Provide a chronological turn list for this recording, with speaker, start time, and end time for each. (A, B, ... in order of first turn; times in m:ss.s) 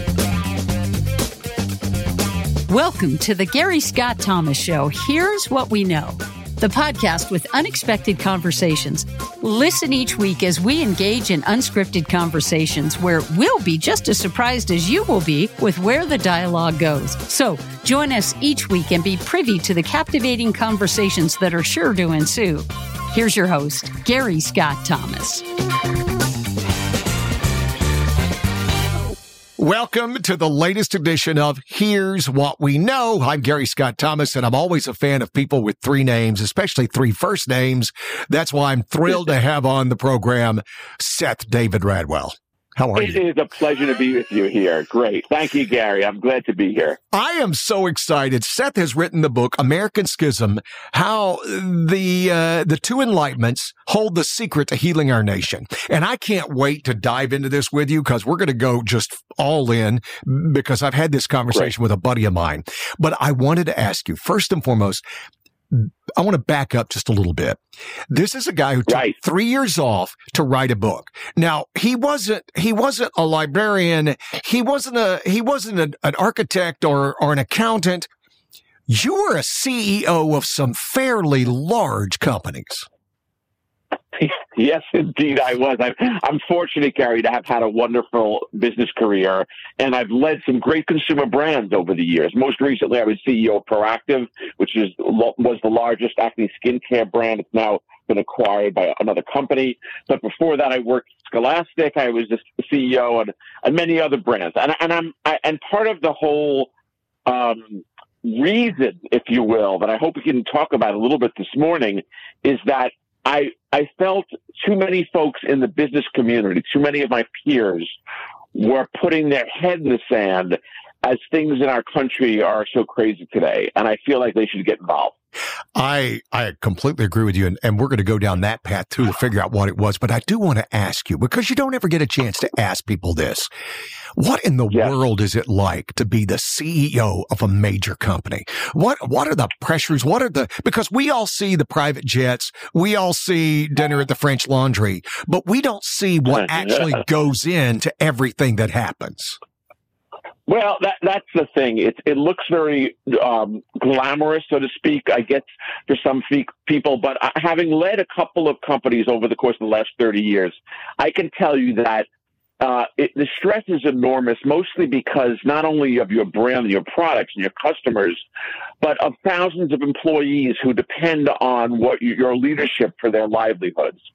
0:02.7-0:25.5 A
0:29.6-0:43.2 B
0:43.0-0:47.0 C
0:47.1-1:05.0 B
1:05.7-1:18.1 B
1:08.9-1:09.2 C
1:18.9-1:22.9 B
1:24.2-1:46.7 C
1:47.3-1:58.0 C
1:58.5-2:05.1 C
2:05.8-2:13.5 B
2:14.2-2:29.4 B
2:26.6-2:26.8 C
2:30.5-2:42.1 C
2:42.6-2:48.2 C
2:48.8-2:54.0 C